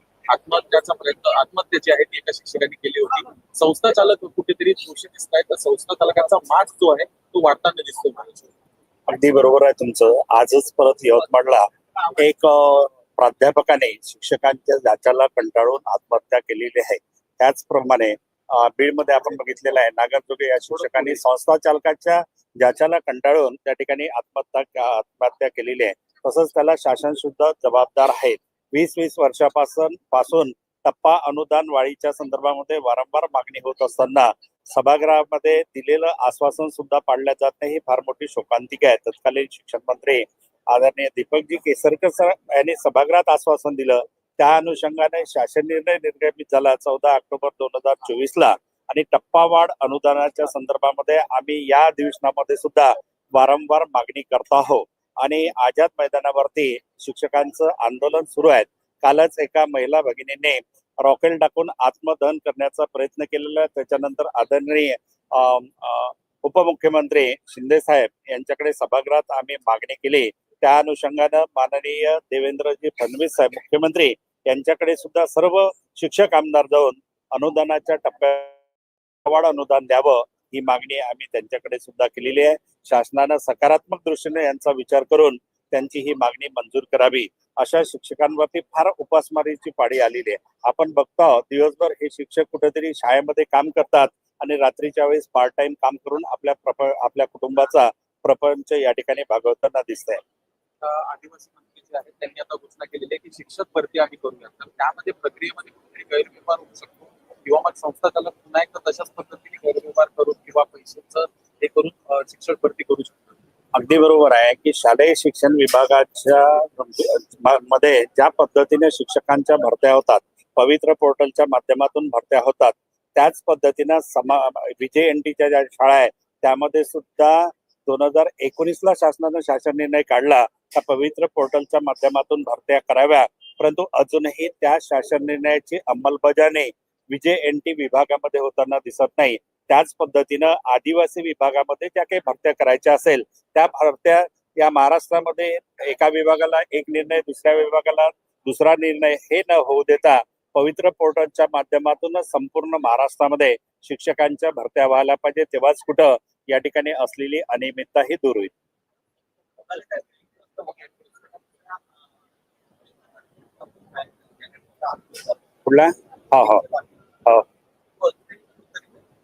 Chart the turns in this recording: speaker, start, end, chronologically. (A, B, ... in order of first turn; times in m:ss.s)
0:00.3-0:08.5 A
0:09.1-0:11.6 B
0:12.2-1:18.6 B
0:20.7-0:21.2 A
1:19.2-1:40.2 B
1:40.8-1:53.3 A
1:53.7-2:38.5 B
2:39.7-2:41.3 A
2:43.6-2:45.3 A
2:45.6-2:46.6 B
2:48.0-2:48.8 A